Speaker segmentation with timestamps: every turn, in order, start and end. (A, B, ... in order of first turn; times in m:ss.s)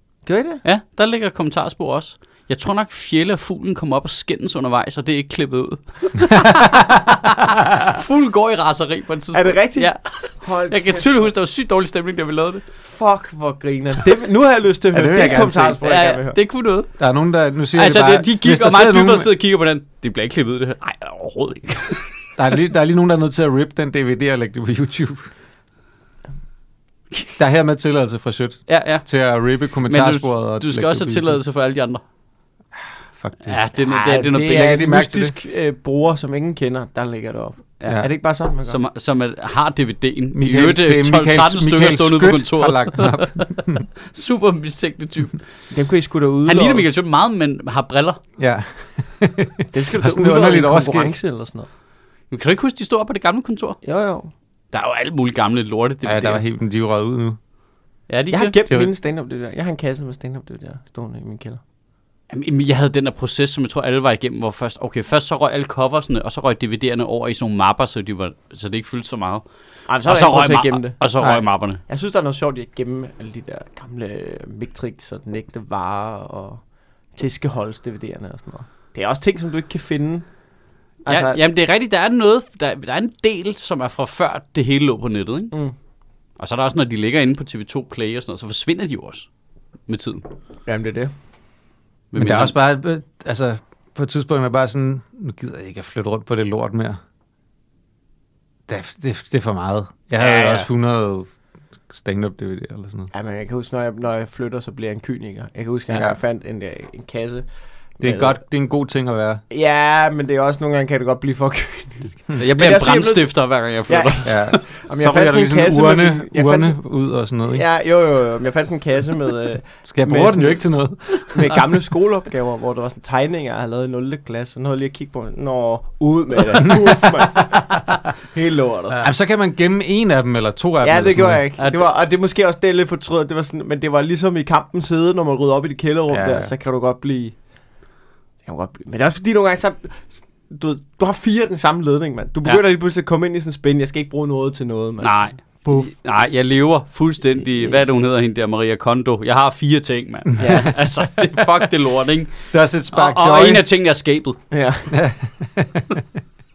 0:00.3-0:00.6 A
0:00.6-0:12.6 B
0:09.3-0:11.3 A
0:12.8-0:16.4 A
0:14.9-0:15.8 C
0:15.8-0:16.9 B
0:17.0-0:19.3 C
0:17.7-0:22.0 B
0:22.4-0:25.3 C
0:27.4-0:31.4 C
0:28.7-0:29.1 B
0:29.9-0:32.0 B
0:33.2-0:33.6 C
0:33.4-0:34.8 B
0:33.9-0:38.8 A
0:34.5-0:35.4 C
0:37.8-0:38.1 B
0:38.7-0:45.4 B
0:40.3-0:43.9 C
0:45.7-0:46.9 A
0:46.5-0:48.2 B
0:48.4-0:51.2 C
0:49.7-0:51.7 A
0:52.3-0:53.8 B
0:53.8-0:54.3 A
0:54.7-0:56.4 B
0:56.0-0:57.4 C
0:58.1-0:58.6 B
0:58.3-1:01.6 A
1:02.3-1:09.4 B
1:09.9-1:11.0 A
1:10.0-1:11.8 B
1:11.9-1:16.6 A
1:17.2-1:20.3 A
1:21.1-1:21.4 A
1:21.1-1:25.5 B
1:26.4-1:29.3 B
1:29.9-1:30.2 B
1:30.7-1:31.1 A
1:32.1-1:32.6 B
1:32.2-1:37.0 C
1:38.7-1:41.3 C
1:40.2-1:40.7 A
1:41.9-1:43.1 C
1:43.1-1:47.5 A
1:45.9-1:46.2 C
1:48.0-1:48.4 A
1:48.0-1:49.4 C
1:49.5-1:56.8 A
1:52.4-1:54.4 B
1:54.3-1:57.6 C
1:57.5-2:00.6 A
1:59.9-2:01.6 C
2:01.2-2:09.0 A
2:07.4-2:07.7 C
2:09.0-2:11.4 C
2:10.8-2:17.3 A
2:11.6-2:11.9 B
2:16.1-2:16.5 C
2:18.5-2:25.9 A
2:25.0-2:32.3 B
2:30.4-2:30.8 A
2:32.5-2:33.6 C
2:32.9-2:34.4 B
2:34.5-2:34.9 A
2:34.9-2:36.0 C